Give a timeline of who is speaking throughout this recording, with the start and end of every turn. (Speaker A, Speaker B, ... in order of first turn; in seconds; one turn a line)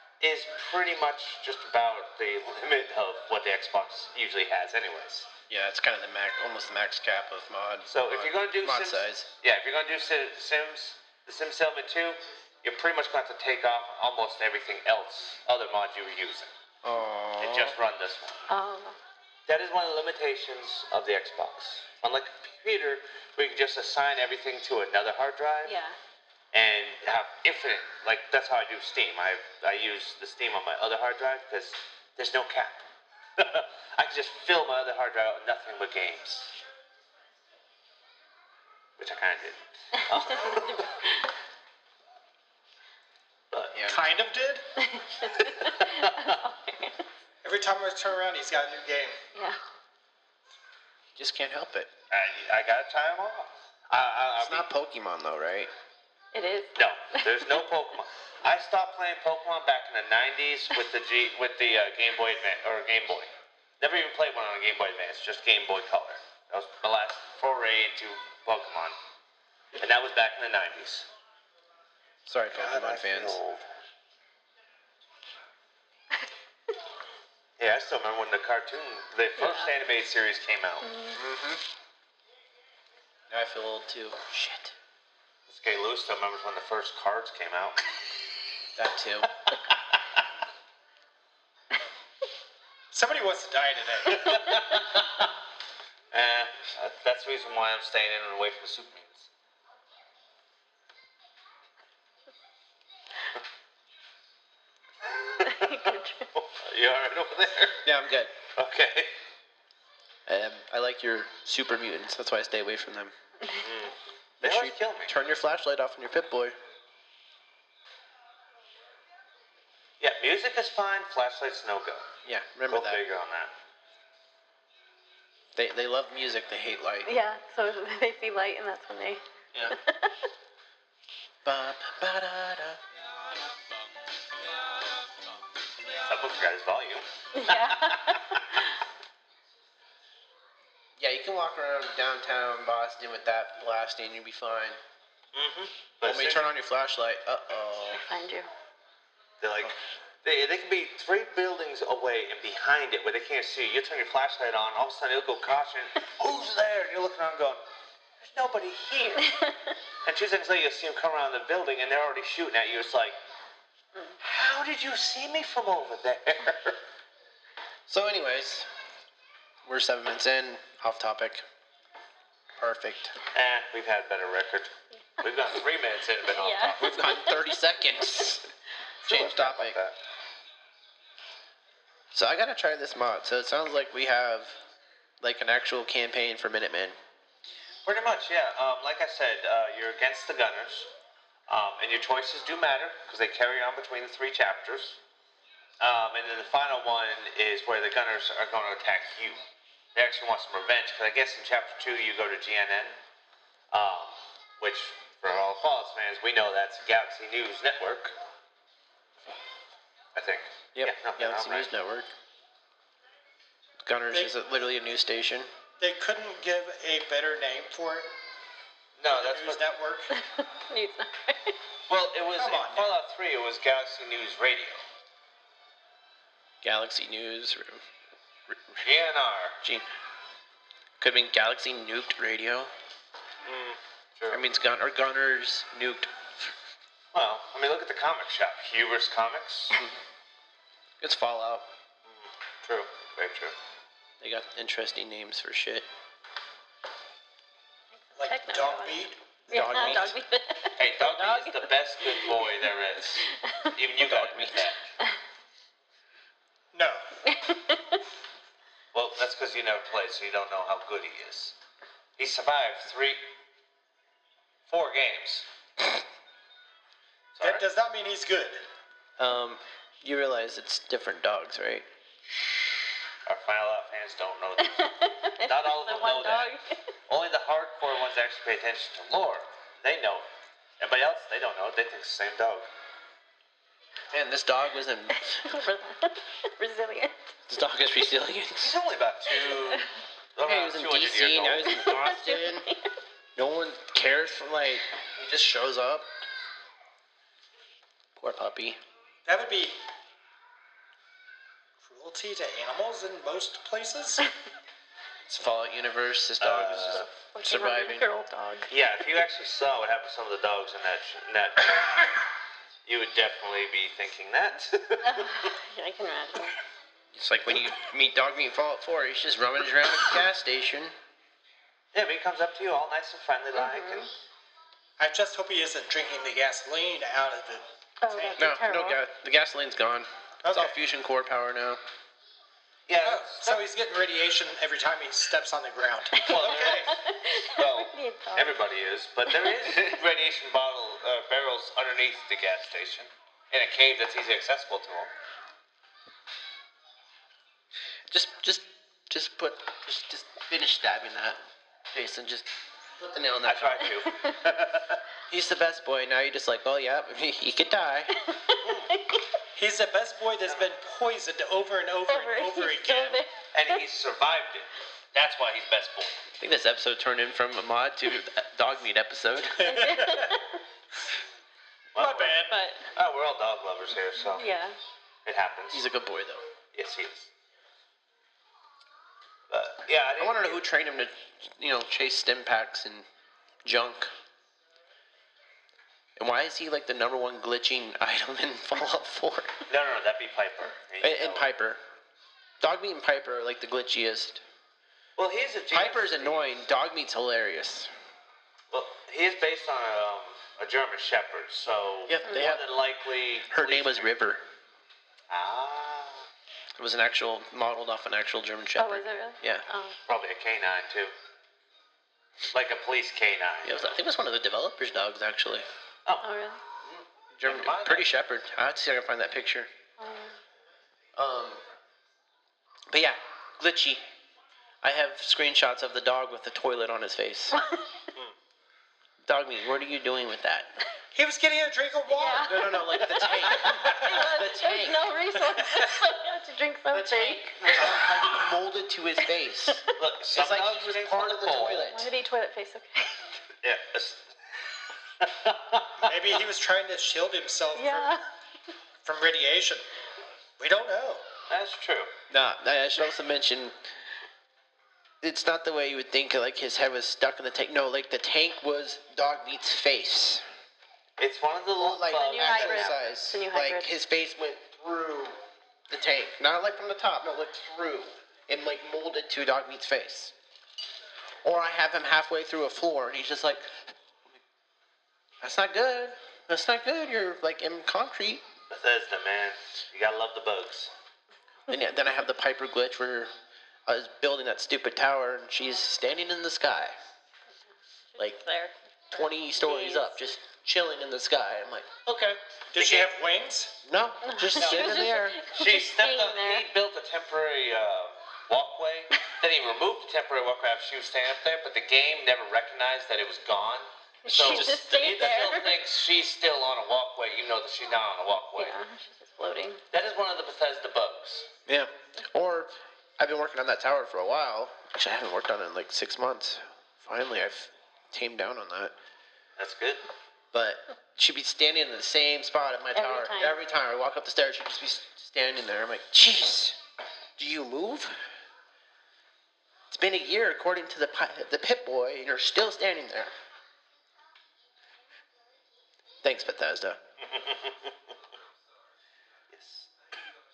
Speaker A: 0.2-5.3
Speaker B: 5.5-9.3
Speaker A: 7.9-16.5
Speaker B: 16.8-17.8
Speaker A: 17.4-18.4
Speaker C: 18.5-19.0
Speaker A: 19.5-25.7
Speaker C: 25.7-26.0
Speaker A: 26.5-32.8
Speaker A: 33.4-36.5
Speaker A: 39.0-40.9
Speaker C: 40.5-41.1
Speaker B: 43.7-44.0
Speaker D: 43.9-44.6
Speaker C: 44.8-47.0
Speaker A: 45.3-46.4
Speaker D: 47.4-49.2
Speaker B: 51.2-51.9
Speaker A: 52.1-54.7
Speaker B: 54.4-55.7
Speaker C: 56.3-57.6
Speaker A: 56.8-69.0
Speaker A: 69.8-71.1
Speaker B: 72.2-73.4
Speaker A: 72.5-73.7
Speaker A: 77.6-80.9
Speaker C: 79.4-79.7
Speaker C: 80.8-81.2
Speaker B: 81.1-81.6
Speaker B: 83.3-84.7
Speaker A: 85.5-87.8
Speaker B: 88.8-89.3
Speaker A: 89.4-90.2
Speaker D: 92.9-94.4
Speaker A: 94.1-95.3
Speaker A: 96.1-99.3
Speaker A: 105.0-107.8
Speaker C: 105.4-106.3
Speaker B: 107.8-108.3
Speaker A: 108.5-109.1
Speaker B: 110.2-113.1
Speaker A: 113.6-115.1
Speaker B: 114.4-116.6
Speaker A: 120.0-122.1
Speaker B: 122.2-123.0
Speaker A: 122.7-123.5
Speaker B: 125.5-127.1
Speaker C: 127.0-130.1
Speaker B: 131.4-132.8
Speaker A: 136.1-138.6
Speaker C: 137.3-138.6
Speaker B: 141.0-144.8
Speaker A: 145.3-146.4
Speaker B: 146.1-148.0
Speaker C: 147.9-148.5
Speaker A: 149.4-149.7
Speaker A: 150.2-157.6
Speaker A: 158.2-159.3
Speaker C: 159.2-159.6
Speaker A: 160.1-163.2
Speaker A: 164.2-166.8
Speaker B: 167.9-168.7
Speaker B: 169.7-171.4
Speaker B: 172.6-173.1
Speaker A: 173.3-177.1
Speaker C: 176.3-177.6
Speaker B: 176.8-178.4
Speaker A: 179.1-180.0
Speaker B: 179.1-179.8
Speaker B: 182.1-184.6
Speaker B: 185.2-187.0
Speaker A: 187.9-190.9
Speaker A: 191.5-195.0
Speaker A: 195.8-199.4
Speaker A: 199.9-202.9
Speaker A: 203.7-208.1
Speaker A: 210.2-211.7
Speaker B: 210.8-212.1
Speaker B: 213.8-215.5
Speaker D: 215.8-218.1
Speaker A: 219.0-219.6
Speaker D: 219.1-220.1
Speaker C: 220.1-221.6
Speaker A: 221.9-224.8
Speaker D: 222.4-222.9
Speaker B: 226.6-227.8
Speaker B: 228.5-228.8
Speaker A: 228.8-229.6
Speaker B: 231.0-232.7
Speaker A: 233.5-234.4
Speaker B: 234.3-236.5
Speaker A: 237.1-239.8
Speaker B: 241.0-241.7
Speaker A: 242.1-243.6
Speaker B: 244.2-245.9
Speaker D: 248.2-250.0
Speaker C: 248.2-252.5
Speaker B: 249.5-250.2
Speaker A: 250.8-254.9
Speaker C: 253.2-253.7
Speaker B: 254.0-254.6
Speaker D: 256.7-257.0
Speaker C: 257.2-258.0
Speaker A: 258.9-261.6
Speaker A: 262.2-263.2
Speaker A: 264.7-265.5
Speaker A: 267.4-267.6
Speaker D: 267.4-268.6
Speaker B: 269.2-271.9
Speaker A: 273.2-274.9
Speaker C: 274.6-276.8
Speaker A: 275.4-276.5
Speaker A: 277.1-280.2
Speaker A: 280.8-282.7
Speaker B: 284.1-285.4
Speaker C: 285.2-287.1
Speaker B: 287.5-288.8
Speaker A: 288.6-291.8
Speaker C: 289.4-289.8
Speaker B: 290.4-292.7
Speaker C: 291.6-292.9
Speaker B: 293.4-296.1
Speaker B: 298.2-298.8
Speaker D: 299.2-299.8
Speaker D: 301.8-304.3
Speaker B: 305.3-308.1
Speaker A: 306.4-307.1
Speaker C: 307.1-308.7
Speaker A: 308.7-312.1
Speaker A: 312.9-315.4
Speaker C: 315.0-316.6
Speaker B: 317.1-320.9
Speaker A: 321.9-324.1
Speaker C: 323.6-324.1
Speaker D: 325.0-328.5
Speaker C: 328.0-329.0
Speaker B: 328.4-331.8
Speaker D: 330.4-330.8
Speaker A: 332.9-333.6
Speaker D: 333.0-337.0
Speaker C: 336.2-338.6
Speaker A: 336.2-345.1
Speaker C: 339.3-339.9
Speaker B: 348.1-351.4
Speaker B: 351.9-352.5
Speaker B: 353.0-353.9
Speaker A: 353.4-355.0
Speaker B: 355.3-358.1
Speaker C: 358.2-359.2
Speaker A: 358.6-358.9
Speaker D: 359.6-363.2
Speaker C: 362.1-363.3
Speaker A: 363.5-366.2
Speaker B: 366.4-369.8
Speaker D: 369.6-370.4
Speaker C: 369.6-370.6
Speaker A: 371.9-374.5
Speaker D: 372.0-372.6
Speaker C: 372.5-372.9
Speaker C: 374.2-374.8
Speaker A: 375.2-375.8
Speaker B: 375.7-376.4
Speaker A: 376.7-377.3
Speaker A: 379.5-380.6
Speaker B: 380.2-383.1
Speaker B: 383.6-384.1
Speaker B: 386.2-389.6
Speaker A: 389.7-391.5
Speaker B: 391.0-391.8
Speaker B: 392.6-394.4
Speaker A: 395.2-396.6
Speaker B: 395.7-397.9
Speaker A: 398.7-404.1
Speaker B: 402.1-402.6
Speaker C: 402.3-402.6
Speaker B: 403.5-404.4
Speaker A: 405.3-406.3
Speaker B: 406.8-409.6
Speaker C: 408.8-410.0
Speaker A: 410.1-411.1
Speaker A: 412.5-413.9
Speaker B: 413.6-415.6
Speaker C: 416.2-416.6
Speaker A: 416.9-418.1
Speaker B: 417.4-419.7
Speaker C: 420.0-420.4
Speaker B: 421.1-421.6
Speaker B: 422.9-424.0
Speaker B: 424.8-427.6
Speaker C: 427.6-427.9
Speaker B: 429.2-430.7
Speaker D: 431.1-434.2
Speaker C: 432.1-438.4
Speaker B: 432.5-435.1
Speaker D: 435.6-435.9
Speaker B: 436.9-442.1
Speaker A: 440.0-441.9
Speaker C: 441.7-443.3
Speaker A: 443.6-444.3
Speaker A: 445.2-446.1
Speaker D: 446.0-448.1
Speaker C: 447.8-448.2
Speaker D: 449.1-449.9
Speaker D: 450.6-451.2
Speaker A: 451.5-452.1
Speaker B: 452.3-453.7
Speaker B: 455.2-460.4
Speaker A: 461.2-463.0
Speaker B: 461.8-465.4
Speaker C: 462.1-463.9
Speaker B: 465.9-470.3
Speaker B: 471.4-473.9
Speaker B: 475.4-478.4
Speaker A: 478.7-480.9
Speaker B: 481.7-483.3
Speaker B: 483.9-486.9
Speaker C: 488.1-490.1
Speaker B: 489.1-492.4
Speaker D: 492.7-493.8
Speaker A: 492.8-493.1
Speaker B: 493.8-495.4
Speaker C: 494.2-496.6
Speaker A: 494.6-508.7
Speaker C: 504.2-505.8
Speaker B: 504.3-504.8
Speaker C: 508.6-509.8
Speaker A: 509.9-511.5
Speaker B: 511.6-518.9
Speaker A: 519.6-520.0
Speaker B: 520.5-526.8
Speaker C: 523.0-523.6
Speaker B: 527.4-528.1
Speaker B: 529.9-533.3
Speaker B: 536.2-537.0
Speaker A: 537.2-537.9
Speaker A: 539.5-539.9